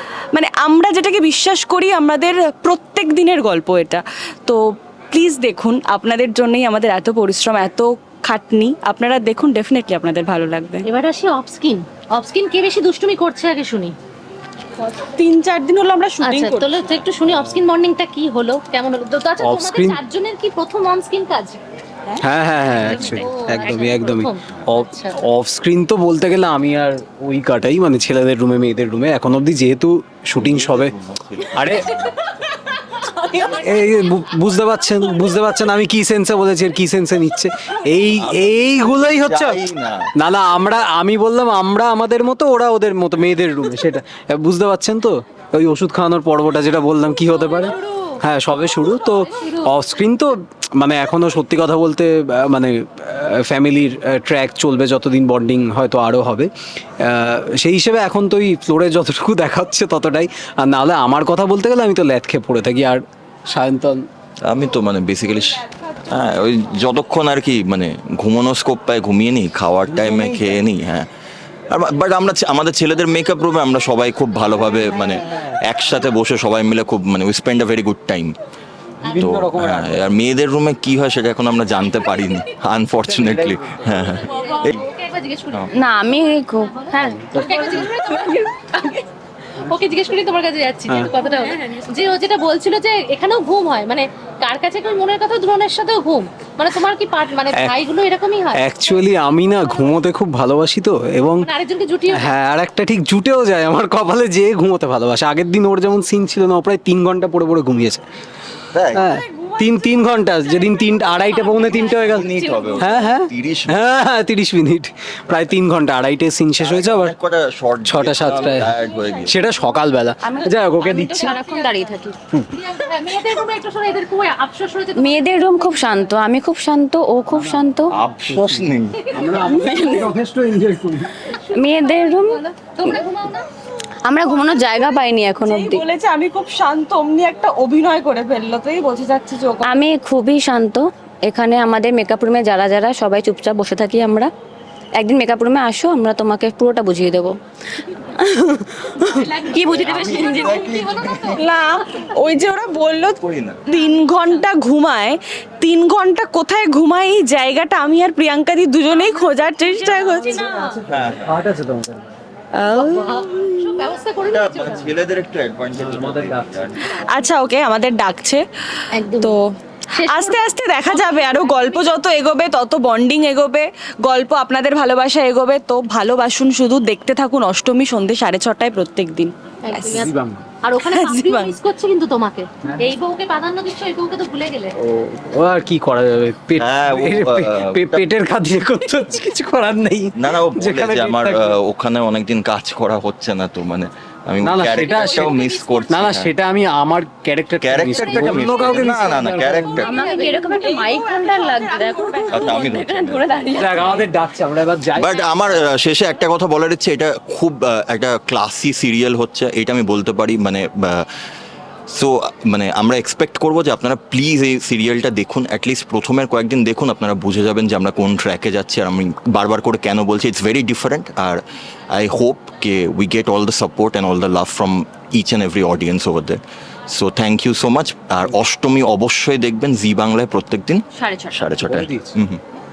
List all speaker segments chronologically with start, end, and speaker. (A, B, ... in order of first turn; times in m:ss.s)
0:00.3-0:04.6 A
0:05.1-0:10.8 A
0:10.8-0:13.9 B
0:14.8-0:16.8 A
0:16.2-0:21.6 B
0:19.4-0:20.0 C
0:22.2-0:30.9 C
0:22.7-0:25.2 B
0:22.8-0:23.4 A
0:30.3-0:31.8 D
0:31.5-0:31.9 C
0:33.5-0:39.6 C
0:38.1-0:40.1 D
0:40.2-1:04.0 C
0:49.3-0:49.7 B
1:04.5-1:11.1 D
1:09.8-1:10.6 C
1:11.7-1:18.3 D
1:14.6-1:15.5 C
1:19.1-1:24.8 D
1:19.1-1:20.0 C
1:23.0-1:24.1 C
1:24.2-1:25.7 B
1:25.8-1:28.4 E
1:27.3-1:28.9 B
1:29.6-1:39.0 B
1:38.5-1:41.5 C
1:41.4-1:42.4 B
1:42.1-1:48.0 C
1:48.7-1:49.1 D
1:48.9-1:57.1 C
1:49.1-1:49.9 A
1:50.6-1:52.9 A
1:51.6-1:53.8 D
1:56.6-1:59.4 D
1:57.8-2:01.4 C
1:58.5-1:59.3 A
2:00.2-2:02.2 E
2:01.1-2:06.1 B
2:05.0-2:07.9 E
2:07.3-2:07.7 C
2:07.9-2:09.0 D
2:08.3-2:11.3 C
2:09.0-2:09.5 B
2:09.4-2:10.1 E
2:11.2-2:13.4 B
2:11.4-2:12.4 E
2:14.0-2:15.8 E
2:15.4-2:19.8 A
2:19.6-2:24.3 E
2:25.0-2:27.3 E
2:28.2-2:28.7 E
2:28.9-2:31.4 B
2:29.4-2:30.6 E
2:29.8-2:31.4 D
2:31.4-2:40.5 A
2:33.2-2:33.6 D
2:39.8-2:42.1 C
2:40.4-2:40.8 B
2:40.9-2:41.4 D
2:42.6-2:44.9 B
2:44.3-2:47.0 D
2:45.8-2:46.5 C
2:46.9-2:48.4 A
2:48.9-2:49.4 B
2:49.1-2:49.4 A
2:49.9-2:52.0 B
2:50.0-2:59.3 A
2:59.6-3:04.7 B
2:59.8-3:00.4 C
3:00.8-3:01.6 A
3:04.8-3:11.6 C
3:06.6-3:08.0 D
3:10.2-3:16.3 D
3:14.4-3:15.3 C
3:14.7-3:16.1 B
3:15.9-3:19.9 C
3:17.6-3:20.0 D
3:17.9-3:20.5 B
3:19.9-3:23.9 E
3:20.2-3:22.8 A
3:22.3-3:23.9 D
3:23.6-3:25.2 C
3:23.6-3:24.0 A
3:25.0-3:31.0 D
3:31.9-3:41.4 D
3:41.9-3:52.4 D
3:50.9-3:51.4 E
3:51.6-3:52.1 C